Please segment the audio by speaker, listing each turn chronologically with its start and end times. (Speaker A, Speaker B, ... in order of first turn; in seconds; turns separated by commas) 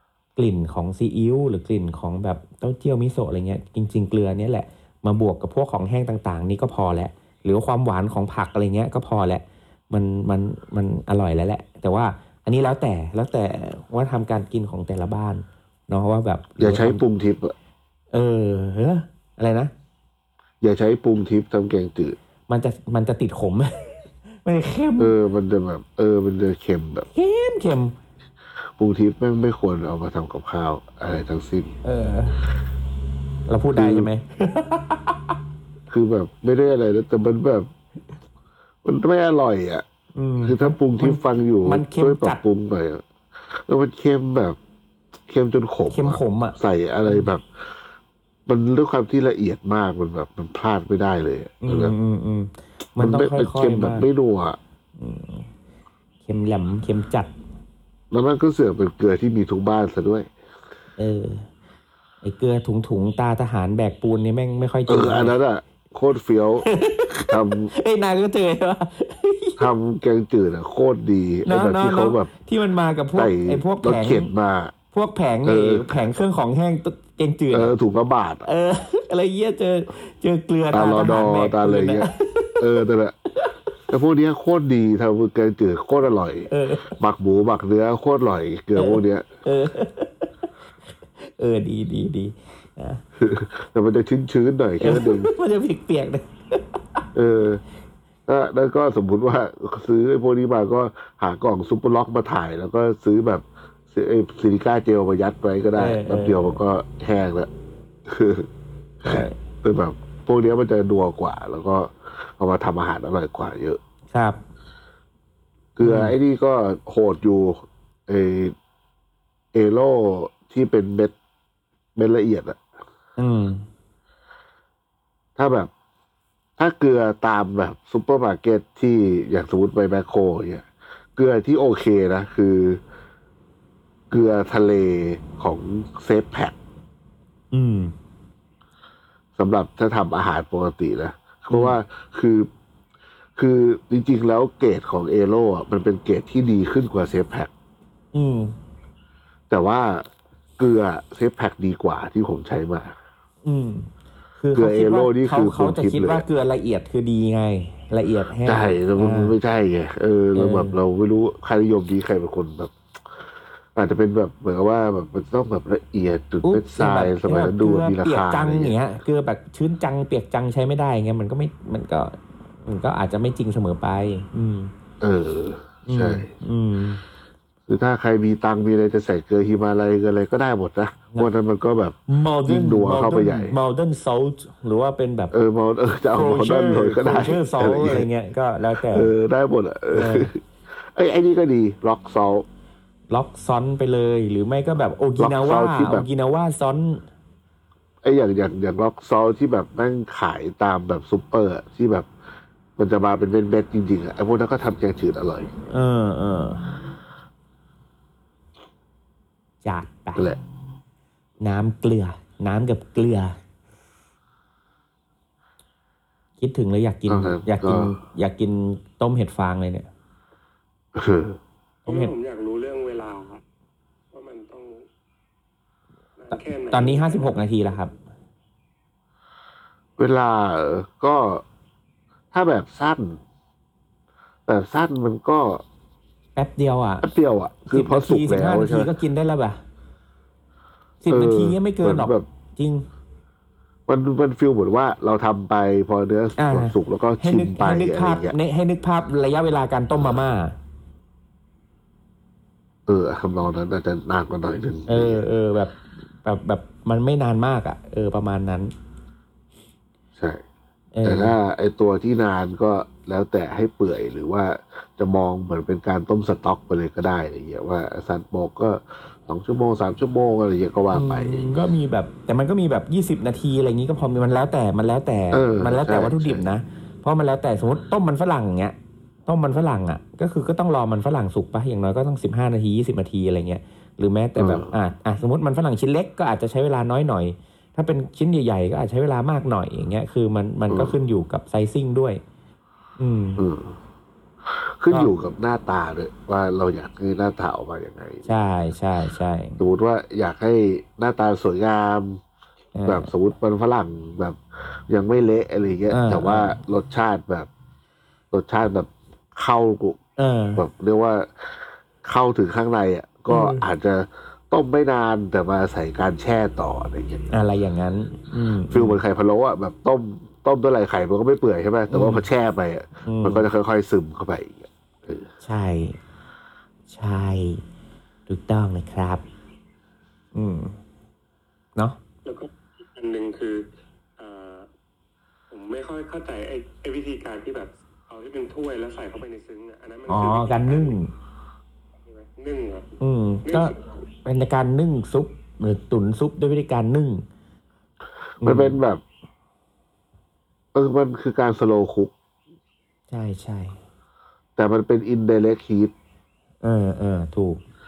Speaker A: 0.3-17.0, Speaker B: 16.6-17.5, Speaker A: 18.1-19.7, Speaker B: 20.6-22.1, Speaker A: 22.5-25.1, Speaker B: 25.0-27.1, Speaker A: 27.1-27.9, Speaker B: 28.8-31.7, Speaker A: 31.8-32.4, Speaker A: 33.5-35.3, Speaker B: 33.7-34.1, Speaker B: 35.9-37.7, Speaker B: 38.8-39.8, Speaker A: 40.1-42.4, Speaker B: 40.4-44.6, Speaker B: 45.3-47.9, Speaker A: 45.9-47.3, Speaker B: 48.5-51.9, Speaker A: 51.6-54.1, Speaker B: 53.0-54.6, Speaker A: 55.0-55.5, Speaker A: 56.2-57.3, Speaker B: 58.1-60.3, Speaker A: 61.0-61.5, Speaker A: 62.2-65.3, Speaker B: 64.9-66.7, Speaker A: 66.6-69.6, Speaker B: 67.2-67.7, Speaker B: 69.6-72.3, Speaker A: 71.5-74.3, Speaker B: 73.2-74.7, Speaker A: 74.9-77.7, Speaker B: 75.4-76.0, Speaker B: 77.5-78.5, Speaker A: 78.5-82.6, Speaker B: 80.7-82.1, Speaker B: 82.6-83.2, Speaker B: 83.9-89.2, Speaker A: 86.5-86.9, Speaker A: 88.8-90.5, Speaker A: 91.2-93.0, Speaker B: 93.2-95.3, Speaker A: 94.8-97.0, Speaker B: 97.1-97.6, Speaker B: 98.3-107.5, Speaker A: 105.8-106.6, Speaker B: 108.1-108.5, Speaker A: 109.0-109.3, Speaker B: 109.0-113.8, Speaker A: 114.1-114.4, Speaker B: 115.8-118.5, Speaker A: 115.8-116.1, Speaker B: 119.5-121.1, Speaker B: 122.0-122.6, Speaker A: 123.2-123.7, Speaker B: 125.4-125.7, Speaker B: 126.6-132.8, Speaker B: 134.1-136.6, Speaker A: 137.5-137.9, Speaker B: 139.4-142.5, Speaker A: 141.5-141.8, Speaker B: 143.4-147.5, Speaker A: 148.1-148.6, Speaker B: 149.5-150.1, Speaker B: 150.6-153.0, Speaker A: 153.4-159.3, Speaker B: 154.5-156.2, Speaker B: 158.4-168.8, Speaker A: 160.3-160.8, Speaker A: 166.4-174.7, Speaker B: 175.0-176.3, Speaker A: 175.8-177.0, Speaker B: 177.7-183.6, Speaker A: 182.1-185.3, Speaker B: 185.3-188.1, Speaker A: 186.1-189.1, Speaker B: 188.8-192.4, Speaker A: 189.9-190.3, Speaker A: 193.1-197.0, Speaker B: 195.2-196.1, Speaker B: 198.0-202.1, Speaker B: 202.8-205.5, Speaker A: 205.7-206.7, Speaker A: 209.6-210.3, Speaker A: 211.4-213.4, Speaker A: 216.4-219.9, Speaker B: 217.1-217.9, Speaker B: 220.9-221.4, Speaker A: 221.8-222.1, Speaker C: 221.9-223.4, Speaker C: 224.1-224.8, Speaker C: 226.2-227.4, Speaker A: 226.3-227.9, Speaker B: 230.0-231.4, Speaker B: 232.3-233.2, Speaker B: 234.5-235.6, Speaker A: 236.3-237.1, Speaker B: 237.0-238.9, Speaker A: 237.7-239.6, Speaker A: 241.0-242.9, Speaker B: 241.1-242.2, Speaker B: 243.9-248.3, Speaker A: 246.4-250.5, Speaker B: 252.9-255.2, Speaker A: 254.9-258.7, Speaker B: 260.1-260.4, Speaker A: 260.9-261.3, Speaker B: 261.0-271.6, Speaker A: 270.9-292.2, Speaker B: 275.3-276.4, Speaker B: 284.4-284.7, Speaker B: 290.7-290.9, Speaker A: 293.0-293.4, Speaker B: 293.4-293.8, Speaker B: 294.4-298.3, Speaker A: 294.9-295.1, Speaker A: 298.2-299.6, Speaker B: 299.6-302.2, Speaker A: 302.7-303.1, Speaker B: 302.9-307.5, Speaker A: 305.9-306.6, Speaker B: 308.3-310.0, Speaker A: 310.2-310.6, Speaker B: 310.6-317.2, Speaker A: 313.3-313.6, Speaker A: 317.3-319.0, Speaker B: 318.7-325.3, Speaker A: 321.9-322.2, Speaker A: 323.0-323.4, Speaker A: 325.4-326.0, Speaker A: 326.9-327.6, Speaker A: 328.3-329.2, Speaker A: 330.3-330.8, Speaker C: 332.2-334.7, Speaker C: 335.5-341.0, Speaker A: 340.1-341.1, Speaker C: 342.0-342.9, Speaker A: 343.0-347.2, Speaker C: 343.4-343.9, Speaker A: 348.4-348.8, Speaker B: 348.4-349.0, Speaker B: 350.7-352.1, Speaker A: 353.1-353.8, Speaker B: 354.6-355.9, Speaker A: 356.6-357.6